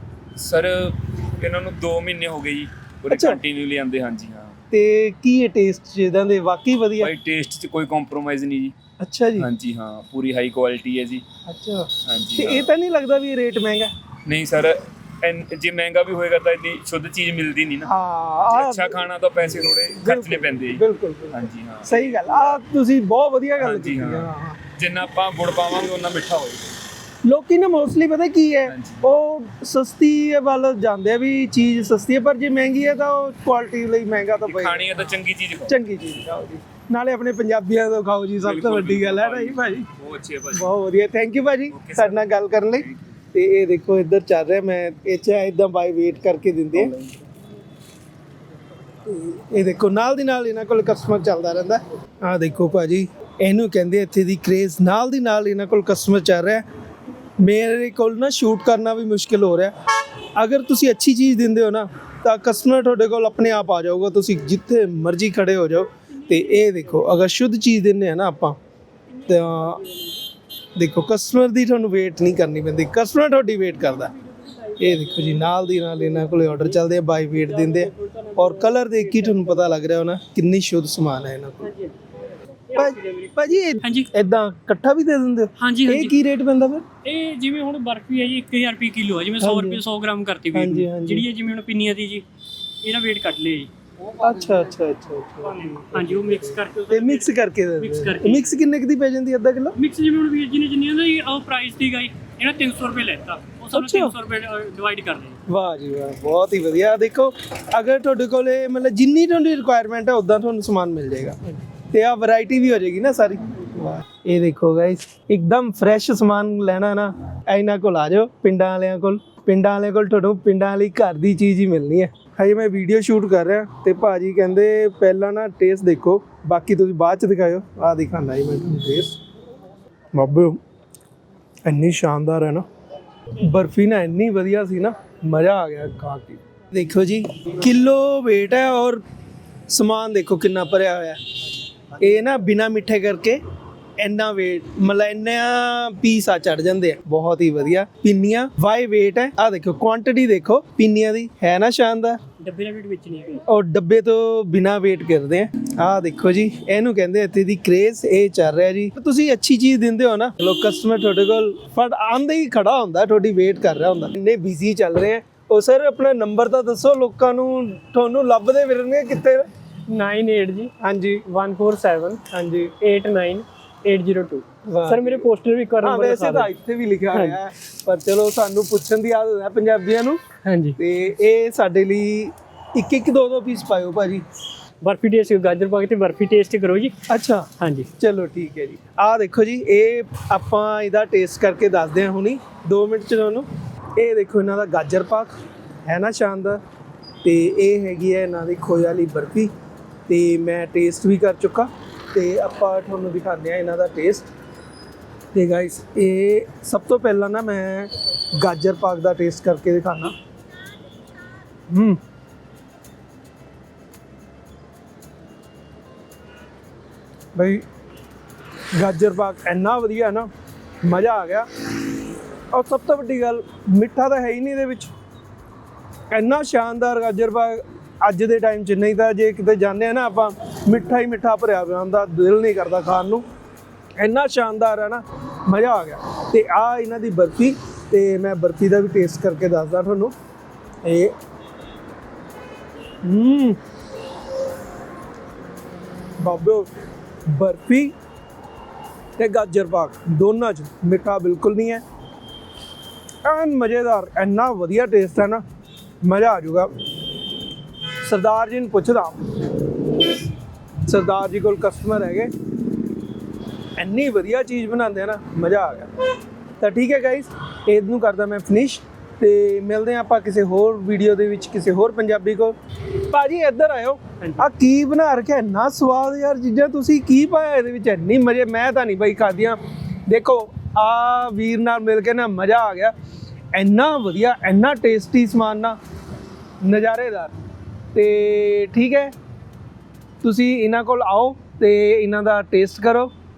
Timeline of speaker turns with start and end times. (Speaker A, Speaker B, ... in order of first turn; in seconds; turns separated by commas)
Speaker A: 0.4-4.6, Speaker B: 3.1-3.4, Speaker B: 4.7-7.1, Speaker A: 7.0-8.8, Speaker B: 9.0-9.5, Speaker A: 9.4-11.2, Speaker B: 11.5-13.9, Speaker A: 12.1-12.7, Speaker A: 14.3-17.9, Speaker B: 17.9-19.1, Speaker A: 18.5-22.4, Speaker B: 20.0-24.6, Speaker A: 23.6-26.7, Speaker B: 27.2-35.1, Speaker A: 28.7-29.1, Speaker A: 34.5-35.8, Speaker B: 35.7-39.9, Speaker A: 38.4-40.7, Speaker B: 40.5-47.0, Speaker A: 41.7-42.3, Speaker A: 46.8-47.1, Speaker B: 49.0-56.6, Speaker B: 57.4-59.7, Speaker B: 60.4-68.6, Speaker C: 66.4-66.7, Speaker C: 69.1-70.2, Speaker B: 69.3-69.8, Speaker B: 70.8-74.1, Speaker C: 74.3-75.4, Speaker B: 74.8-81.7, Speaker C: 76.2-76.6, Speaker C: 77.3-79.8, Speaker C: 81.6-84.1, Speaker B: 82.7-86.8, Speaker C: 85.6-86.1, Speaker C: 87.0-92.2, Speaker B: 89.4-89.8, Speaker B: 90.5-91.3, Speaker C: 92.8-93.7, Speaker B: 94.2-99.8, Speaker C: 95.4-98.6, Speaker C: 99.8-105.4, Speaker B: 103.7-104.2, Speaker B: 105.5-111.4, Speaker B: 111.9-129.2, Speaker B: 130.1-130.6, Speaker B: 131.7-132.7, Speaker B: 133.4-139.0, Speaker B: 139.7-141.2, Speaker B: 142.0-143.4, Speaker B: 144.0-152.2, Speaker C: 152.4-153.4, Speaker B: 153.5-169.5, Speaker C: 169.9-170.7, Speaker B: 170.8-171.2, Speaker C: 171.3-172.2, Speaker B: 172.3-172.7, Speaker C: 172.8-176.5, Speaker B: 174.7-175.3, Speaker B: 175.8-180.2, Speaker C: 177.1-177.4, Speaker C: 180.4-180.8, Speaker B: 180.8-184.2, Speaker C: 184.8-186.9, Speaker B: 187.1-195.3, Speaker C: 187.6-187.9, Speaker B: 195.9-196.6, Speaker B: 197.2-199.5, Speaker B: 200.1-204.3, Speaker B: 205.3-210.1, Speaker B: 211.7-212.0, Speaker B: 217.3-217.7, Speaker B: 218.8-220.3, Speaker B: 220.8-221.5, Speaker B: 222.5-224.9, Speaker B: 226.1-233.2, Speaker B: 234.0-240.1, Speaker B: 240.8-241.1, Speaker B: 243.0-243.6, Speaker B: 246.2-246.7, Speaker B: 247.3-247.9, Speaker B: 249.2-251.8, Speaker B: 253.2-255.4, Speaker B: 256.0-256.7, Speaker B: 258.0-259.2, Speaker B: 260.9-262.3, Speaker B: 263.8-265.9, Speaker B: 266.6-282.9, Speaker C: 274.2-274.4, Speaker B: 283.6-285.8, Speaker B: 286.6-287.3, Speaker B: 287.9-289.1, Speaker B: 290.2-293.1